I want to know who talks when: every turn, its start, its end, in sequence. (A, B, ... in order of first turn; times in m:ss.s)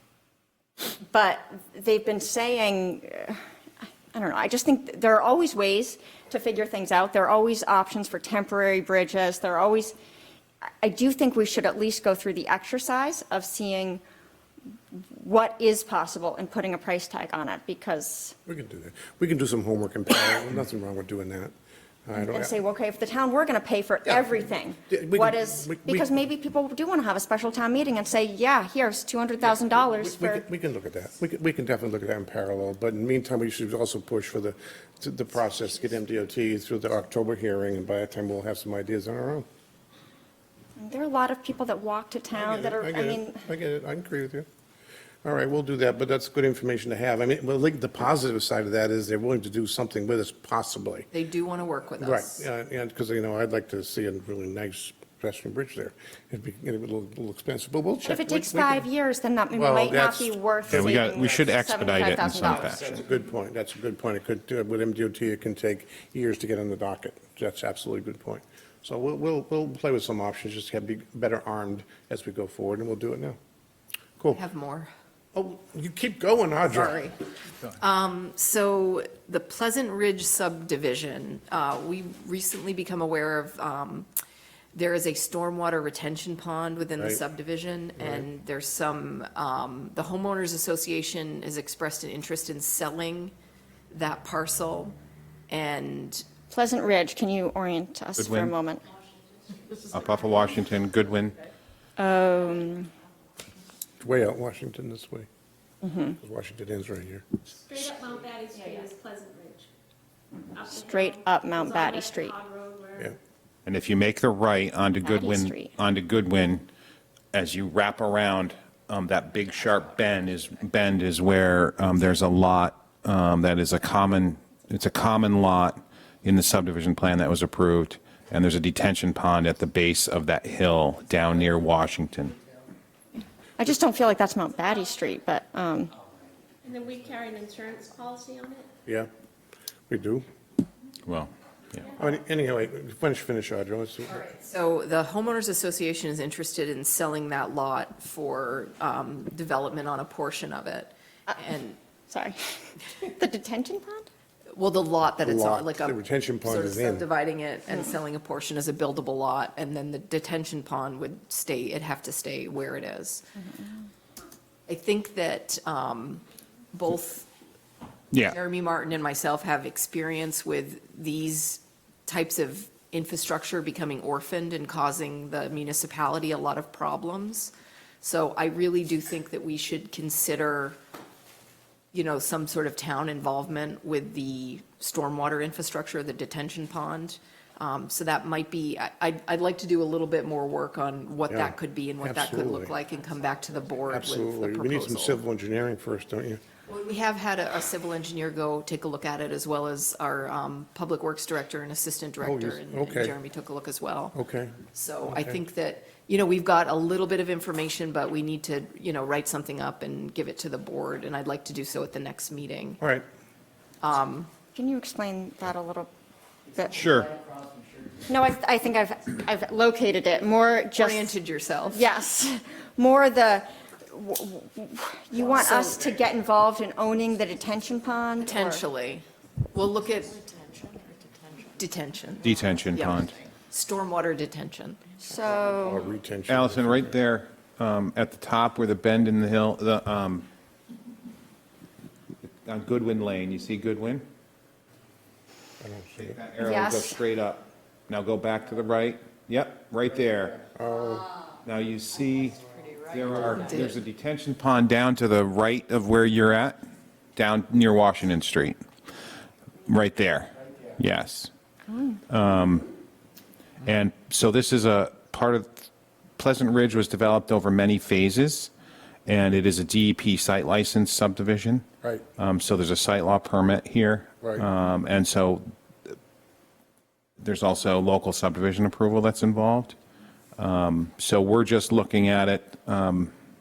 0:01.1-0:03.4 A
0:04.1-0:09.9 A
0:10.6-0:14.0 A
0:14.9-0:18.4 A
0:18.4-0:21.5 B
0:22.0-0:22.5 B
0:22.2-0:30.4 A
0:24.9-0:26.1 B
0:29.8-0:39.4 B
0:40.8-0:43.4 A
0:42.3-0:44.5 B
0:45.2-0:51.1 B
0:51.1-0:52.4 C
0:52.0-0:58.9 B
0:58.0-1:03.0 A
0:59.5-1:00.4 B
1:00.7-1:02.9 D
1:02.6-1:13.4 B
1:14.3-1:14.9 C
1:15.3-1:17.0 B
1:16.8-1:17.1 C
1:17.7-1:24.1 C
1:24.7-1:33.3 C
1:28.0-1:28.2 B
1:33.9-1:35.0 C
1:35.5-1:36.2 C
1:36.5-1:38.8 A
1:38.2-1:38.5 D
1:39.4-1:39.8 E
1:39.9-1:41.4 D
1:42.0-1:42.9 A
1:44.0-1:45.3 B
1:45.8-1:46.2 A
1:46.2-1:47.2 B
1:47.6-1:49.7 E
1:50.5-1:53.2 E
1:50.6-1:52.4 A
1:53.6-1:56.7 D
1:55.0-1:55.7 A
1:57.3-2:12.4 D
2:13.6-2:15.9 A
2:16.6-2:18.7 E
2:19.9-2:20.2 B
2:21.0-2:21.8 D
2:22.0-2:24.2 B
2:24.2-2:31.8 C
2:32.1-2:34.1 A
2:34.5-2:43.2 C
2:35.2-2:37.1 B
2:44.7-2:47.3 C
2:48.2-3:00.8 C
3:01.9-3:15.2 C
3:11.3-3:12.8 B
3:13.9-3:16.4 B
3:16.7-3:24.1 C
3:22.2-3:23.1 B
3:24.1-3:25.4 B
3:24.7-3:32.8 C
3:32.8-3:33.0 B
3:33.8-3:34.3 C
3:34.5-3:35.9 A
3:36.5-3:36.9 A
3:36.7-3:37.1 D
3:38.1-3:41.1 A
3:40.8-3:41.8 C
3:41.7-3:48.6 A
3:45.3-3:45.8 C
3:48.2-3:50.3 C
3:51.6-3:55.0 C
3:52.2-3:53.1 D
3:55.0-3:55.9 A
3:55.6-3:57.0 B
3:56.3-4:00.3 D
4:02.4-4:04.0 D
4:05.6-4:06.2 B
4:06.0-4:10.5 D
4:06.4-4:07.0 C
4:10.5-4:11.1 B
4:11.4-4:16.6 D
4:12.4-4:13.8 C
4:17.2-4:18.6 D
4:19.6-4:21.3 D
4:21.7-4:22.0 A
4:22.1-4:22.7 D
4:23.6-4:28.5 D
4:29.0-4:31.6 D
4:32.2-4:36.0 D
4:37.2-4:39.8 D
4:40.4-4:43.1 D